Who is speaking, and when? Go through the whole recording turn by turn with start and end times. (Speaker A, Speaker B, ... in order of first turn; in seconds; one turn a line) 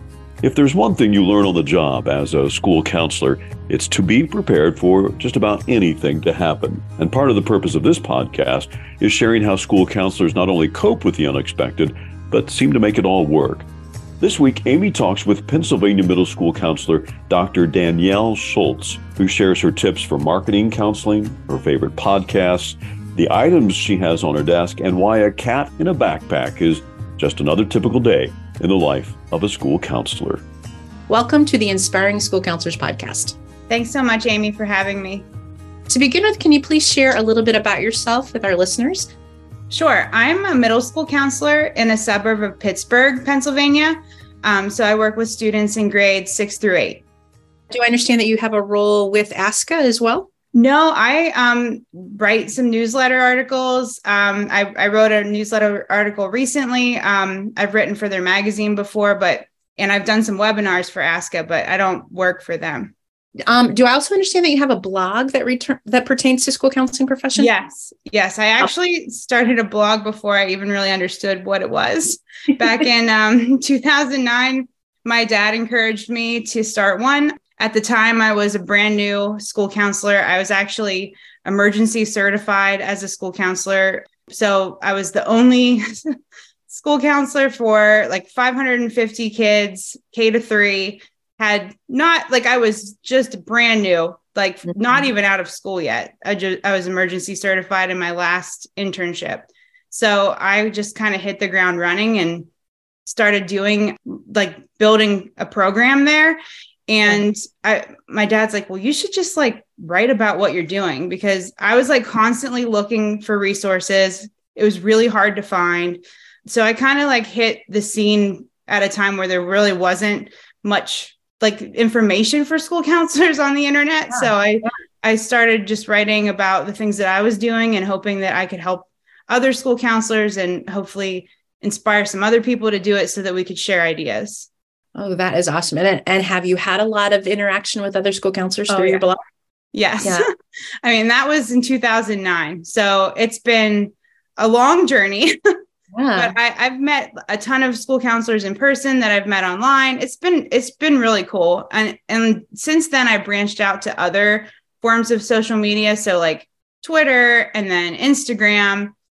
Speaker A: 0.4-13.7
Speaker A: 14.2-30.4
Speaker B: 31.1-33.4
Speaker C: 33.7-35.3
Speaker B: 35.9-39.1
Speaker C: 39.7-47.0
Speaker B: 47.7-50.3
Speaker C: 50.5-62.9
Speaker B: 63.5-67.5
Speaker C: 67.3-85.8
Speaker C: 86.7-102.5
Speaker C: 103.0-134.5
Speaker B: 124.1-124.3
Speaker B: 134.9-139.2
Speaker C: 138.7-139.0
Speaker C: 139.7-140.2
Speaker C: 140.8-145.3
Speaker B: 145.9-146.3
Speaker C: 146.2-158.9